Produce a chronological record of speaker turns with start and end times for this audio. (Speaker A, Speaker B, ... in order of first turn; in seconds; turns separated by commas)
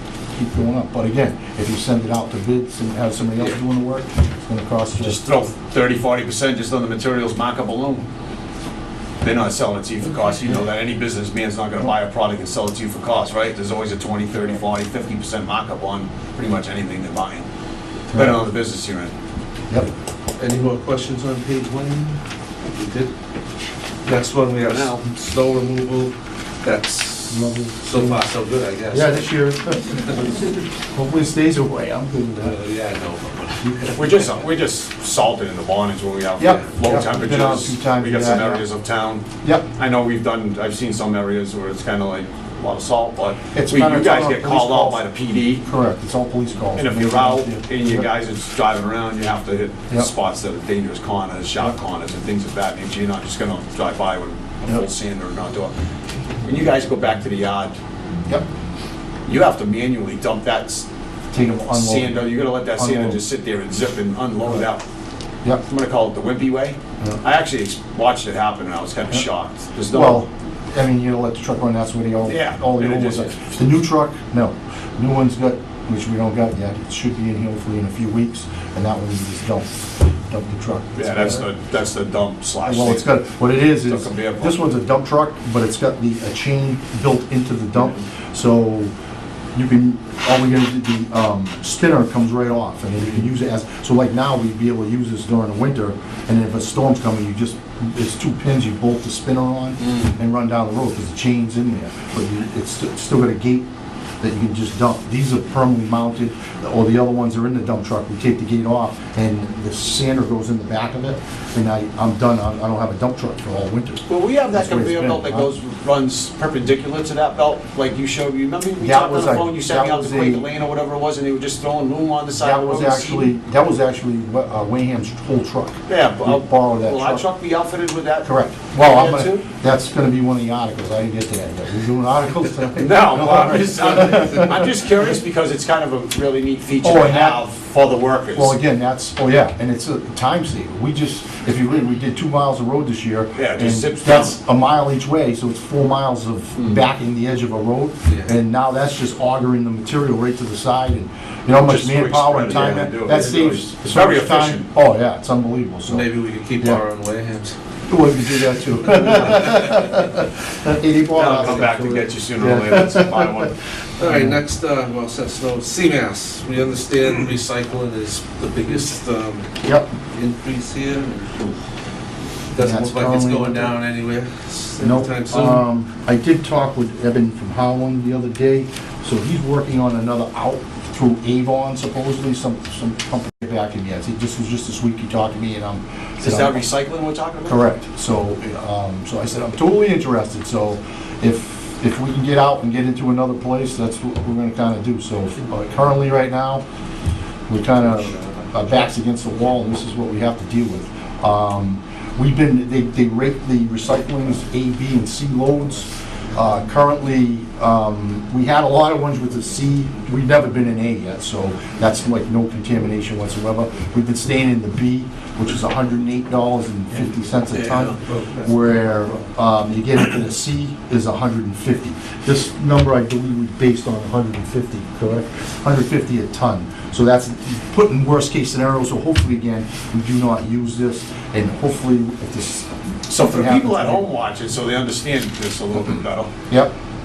Speaker A: 0.3-5.2, Speaker B: 5.0-8.1, Speaker B: 9.2-17.5, Speaker A: 18.1-18.4, Speaker B: 18.1-19.1, Speaker C: 20.4-22.2, Speaker C: 22.7-23.1, Speaker C: 24.0-29.3, Speaker B: 24.6-25.0, Speaker A: 27.3-28.2, Speaker A: 28.9-32.6, Speaker C: 32.4-34.3, Speaker A: 33.6-34.0, Speaker B: 33.9-45.6, Speaker A: 36.4-38.6, Speaker C: 36.4-36.7, Speaker A: 43.5-45.0, Speaker A: 45.6-48.1, Speaker B: 46.7-55.7, Speaker B: 56.4-57.8, Speaker B: 59.2-60.9, Speaker A: 61.3-63.2, Speaker B: 61.7-64.8, Speaker B: 65.6-70.2, Speaker A: 69.9-81.4, Speaker B: 72.2-73.6, Speaker B: 81.0-83.2, Speaker A: 82.6-88.9, Speaker B: 83.7-84.7, Speaker A: 89.5-103.7, Speaker B: 99.8-100.1, Speaker A: 104.2-115.5, Speaker B: 114.1-123.3, Speaker A: 118.8-120.5, Speaker A: 122.4-127.2, Speaker B: 125.9-129.5, Speaker A: 128.2-134.6, Speaker B: 132.8-138.6, Speaker A: 136.8-137.4, Speaker A: 138.3-156.8, Speaker B: 143.3-144.4, Speaker C: 148.1-148.3, Speaker B: 151.6-154.7, Speaker C: 153.1-153.5, Speaker C: 155.9-157.5, Speaker A: 157.9-163.3, Speaker B: 161.1-163.5, Speaker C: 164.0-169.5, Speaker A: 164.0-164.4, Speaker A: 169.6-169.9, Speaker C: 170.1-171.5, Speaker C: 172.5-175.6, Speaker A: 172.6-173.7, Speaker A: 174.8-186.7, Speaker B: 186.2-187.6, Speaker A: 187.4-196.6, Speaker A: 197.5-234.1, Speaker C: 197.8-198.5, Speaker C: 217.8-218.5, Speaker B: 233.1-236.3